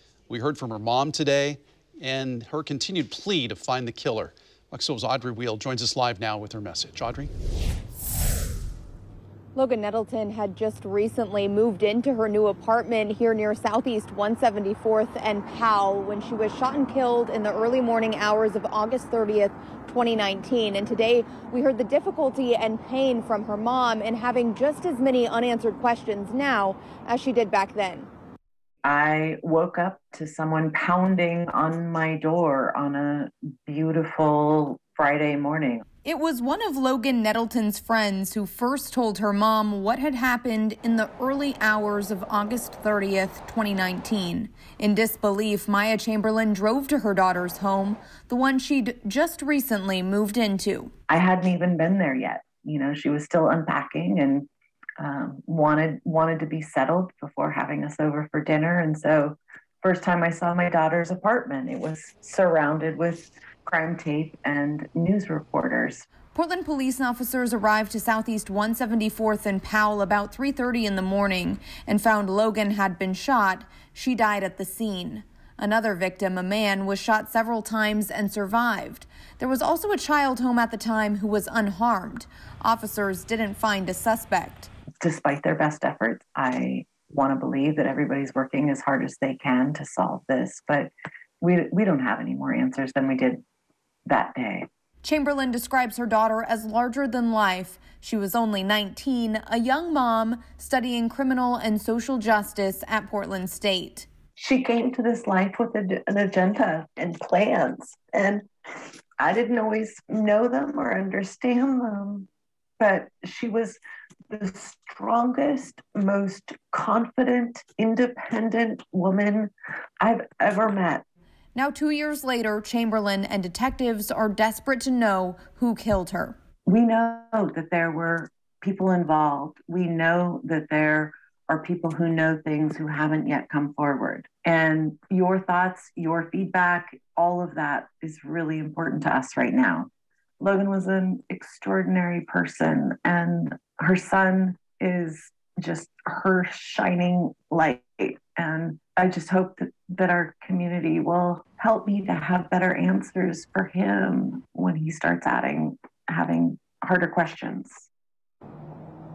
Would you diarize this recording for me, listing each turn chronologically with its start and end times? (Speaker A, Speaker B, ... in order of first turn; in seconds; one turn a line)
Speaker A: 0.3-7.3
Speaker B: 9.5-28.1
Speaker C: 28.8-35.8
Speaker B: 36.0-50.9
Speaker C: 51.1-54.5
Speaker C: 55.0-66.1
Speaker B: 66.3-84.7
Speaker C: 85.0-93.4
Speaker C: 94.0-94.7
Speaker B: 95.0-104.1
Speaker C: 104.3-108.5
Speaker C: 109.2-112.3
Speaker C: 112.8-121.0
Speaker B: 121.5-126.3
Speaker C: 126.7-139.9
Speaker C: 140.4-157.9